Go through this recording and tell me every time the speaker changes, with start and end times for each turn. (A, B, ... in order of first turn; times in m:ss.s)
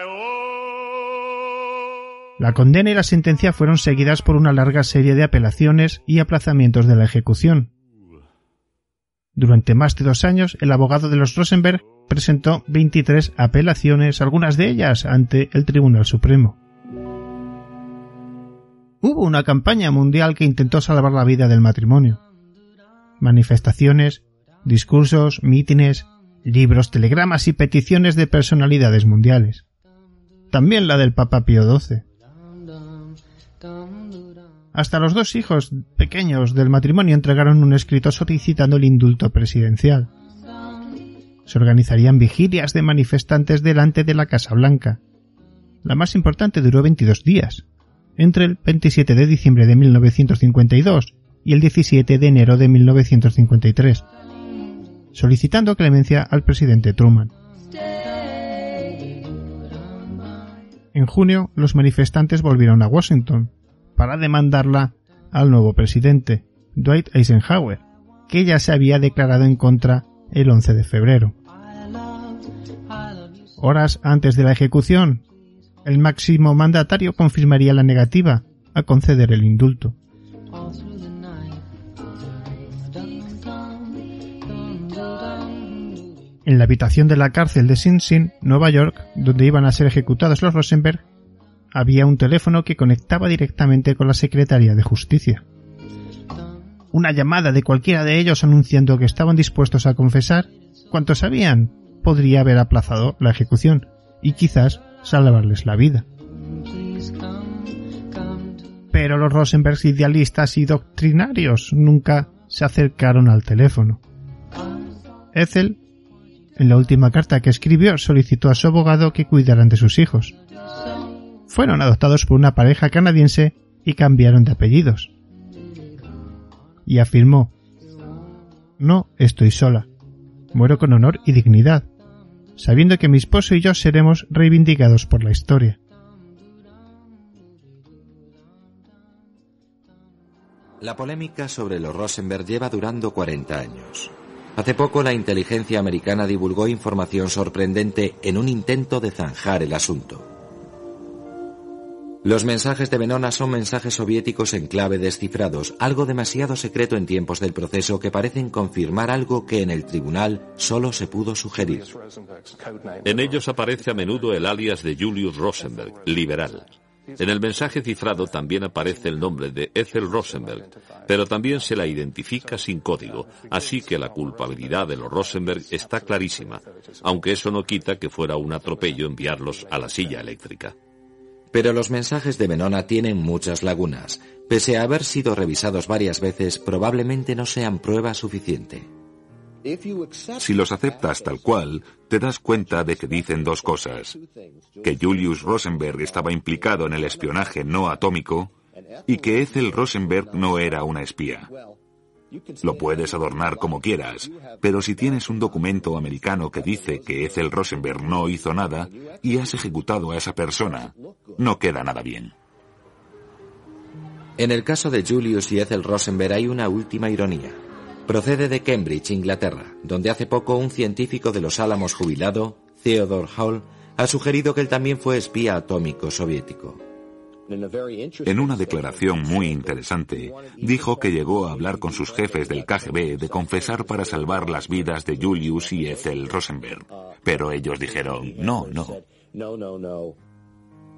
0:02.4-0:07.7 A
0:09.4-0:16.6 A
0:19.0-0:22.2 A
0:23.2-0:29.6 A
0:30.5-0:32.0 A
0:34.7-0:40.1 A
0:41.5-0:45.0 A
0:45.8-0:47.6 A
0:48.2-0:54.0 A
0:55.1-0:57.3 A
1:00.9-1:11.3 A
1:13.6-1:15.2 A
1:15.8-1:20.0 A
1:26.4-1:31.0 A
1:31.7-1:35.4 A
1:36.9-1:46.0 A
1:48.9-1:54.0 A
1:55.3-1:55.8 A
1:56.6-2:00.3 A
2:01.5-2:05.1 A
2:06.9-2:07.5 A
2:08.8-2:09.9 A
2:10.5-2:11.9 A
2:12.6-2:15.8 A
2:20.8-2:30.2 B
2:32.2-2:41.9 B
2:43.0-2:46.6 C
2:47.2-3:00.7 C
3:01.5-3:08.9 B
3:09.6-3:17.9 D
3:10.4-3:14.2 C
3:14.8-3:18.5 C
3:18.7-3:29.8 D
3:19.1-3:21.5 C
3:22.6-3:32.3 C
3:30.5-3:31.6 D
3:34.4-3:46.8 B
3:47.5-4:00.2 D
3:48.2-3:59.0 C